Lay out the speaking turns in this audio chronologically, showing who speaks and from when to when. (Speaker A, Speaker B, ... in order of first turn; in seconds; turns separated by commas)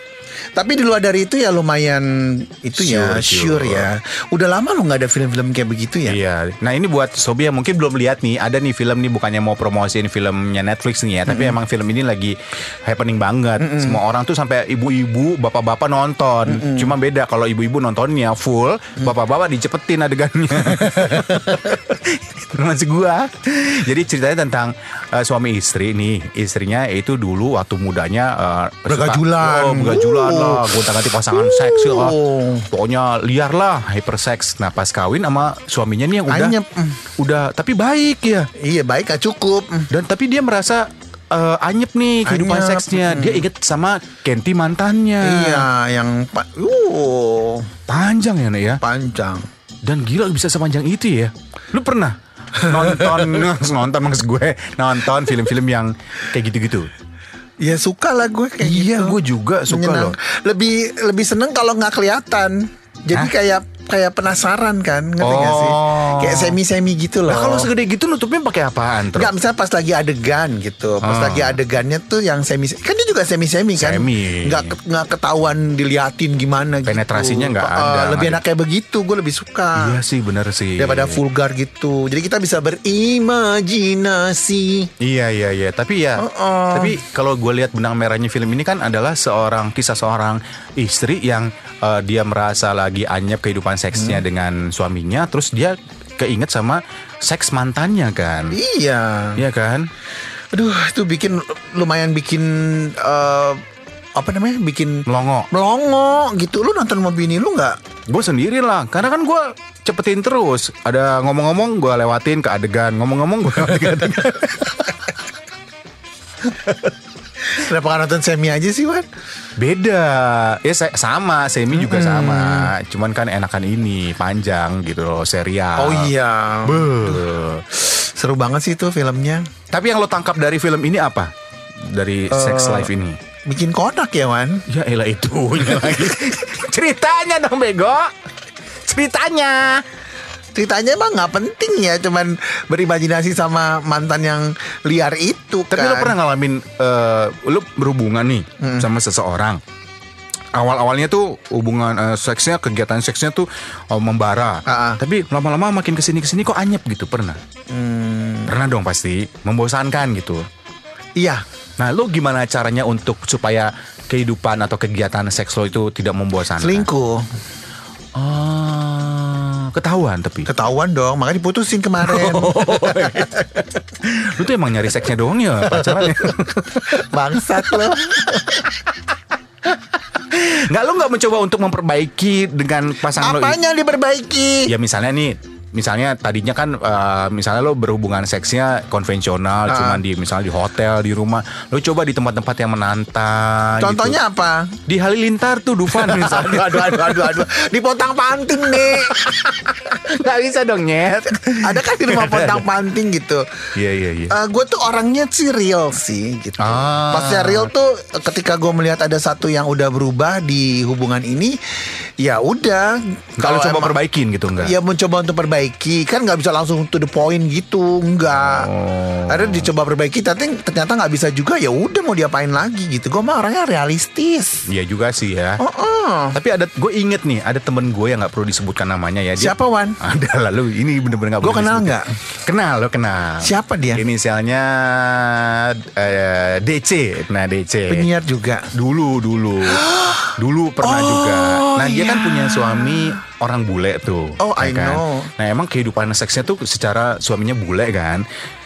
Speaker A: 0.5-6.2, Speaker B: 2.7-3.9, Speaker B: 6.1-36.5, Speaker A: 11.2-11.6, Speaker A: 13.6-14.0, Speaker A: 16.5-16.9, Speaker A: 20.9-21.6, Speaker A: 28.9-32.7, Speaker A: 36.3-37.0, Speaker B: 37.1-38.5, Speaker A: 38.6-39.9, Speaker B: 39.9-45.7, Speaker A: 42.2-43.4, Speaker A: 45.2-47.7, Speaker B: 47.9-48.8, Speaker A: 48.8-49.5, Speaker B: 49.8-56.9, Speaker A: 52.7-53.5, Speaker A: 57.6-67.7, Speaker B: 58.6-60.1, Speaker B: 65.2-66.6, Speaker B: 67.3-69.3, Speaker A: 69.1-80.0, Speaker B: 71.0-71.6, Speaker B: 73.8-74.7, Speaker B: 76.9-78.4, Speaker B: 79.8-81.2, Speaker A: 80.8-84.9, Speaker B: 85.0-98.6, Speaker A: 86.2-87.0, Speaker A: 93.9-94.2, Speaker A: 98.5-99.4, Speaker B: 99.4-99.9, Speaker A: 100.5-103.6, Speaker A: 104.1-107.8, Speaker B: 105.0-105.5, Speaker B: 108.1-114.9, Speaker A: 117.5-119.0, Speaker B: 119.6-126.1, Speaker A: 121.7-122.7, Speaker A: 125.8-129.4, Speaker B: 126.6-127.6, Speaker B: 129.7-131.3, Speaker B: 131.8-133.2, Speaker A: 132.3-132.9, Speaker A: 133.4-134.6, Speaker B: 134.7-138.1, Speaker B: 138.8-139.8, Speaker A: 140.5-146.2, Speaker B: 145.7-149.6, Speaker A: 148.6-148.9, Speaker B: 150.5-157.4, Speaker A: 154.7-155.0, Speaker A: 157.7-158.5, Speaker B: 158.5-160.5, Speaker A: 161.2-161.4, Speaker B: 161.8-166.9, Speaker A: 166.6-167.3, Speaker B: 168.1-170.5, Speaker A: 170.5-173.3, Speaker B: 172.0-177.9, Speaker A: 175.8-176.2, Speaker A: 176.8-178.7, Speaker B: 179.7-183.6, Speaker A: 183.2-184.7, Speaker B: 184.7-194.2, Speaker A: 189.7-190.0, Speaker A: 193.8-194.8, Speaker B: 194.9-197.4, Speaker A: 195.9-199.7, Speaker B: 199.7-202.6, Speaker A: 201.6-203.4, Speaker B: 203.7-204.3, Speaker A: 204.3-211.5, Speaker B: 206.6-207.7, Speaker A: 212.2-214.0, Speaker B: 213.4-214.7, Speaker A: 214.6-218.7, Speaker B: 218.3-219.7, Speaker A: 219.3-224.7, Speaker B: 224.7-225.6, Speaker A: 225.6-226.4, Speaker B: 226.3-238.1, Speaker A: 229.4-230.0, Speaker A: 231.4-232.1, Speaker A: 233.4-234.0, Speaker A: 237.9-238.7, Speaker B: 238.7-248.2, Speaker A: 239.7-243.2, Speaker A: 244.4-245.3